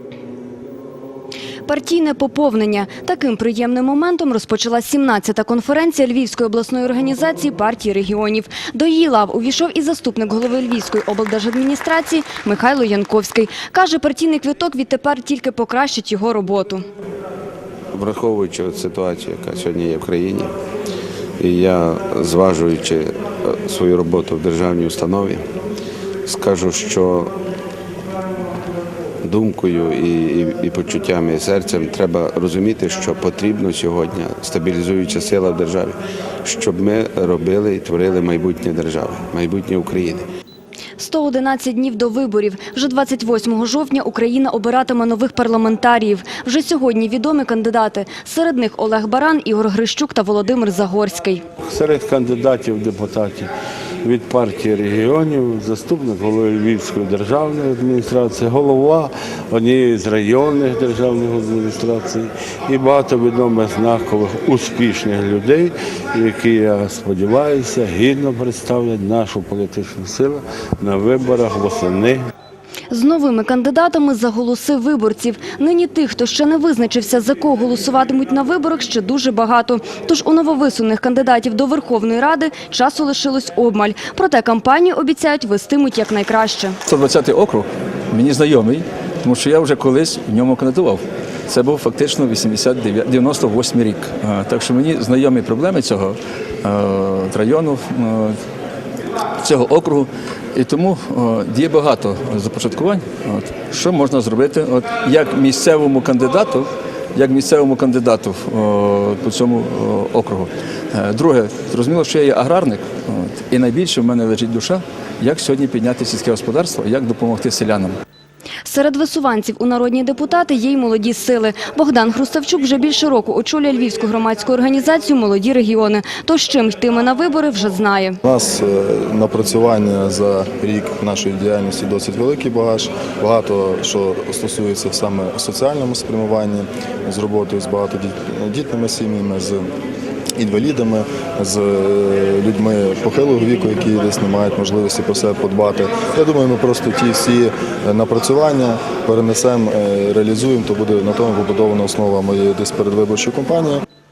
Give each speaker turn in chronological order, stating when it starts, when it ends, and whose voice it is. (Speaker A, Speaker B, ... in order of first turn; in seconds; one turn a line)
Speaker A: 1.7-16.8
Speaker B: 17.9-20.5
Speaker B: 21.4-25.4
Speaker B: 26.3-27.4
Speaker B: 29.2-40.3
Speaker A: 41.0-51.4
Speaker C: 51.6-53.5
Speaker C: 54.0-72.2
Speaker A: 72.9-86.8
Speaker D: 86.9-98.3
Speaker D: 99.4-117.9
Speaker A: 118.7-128.2
Speaker E: 128.2-139.7
Speaker E: 140.4-153.8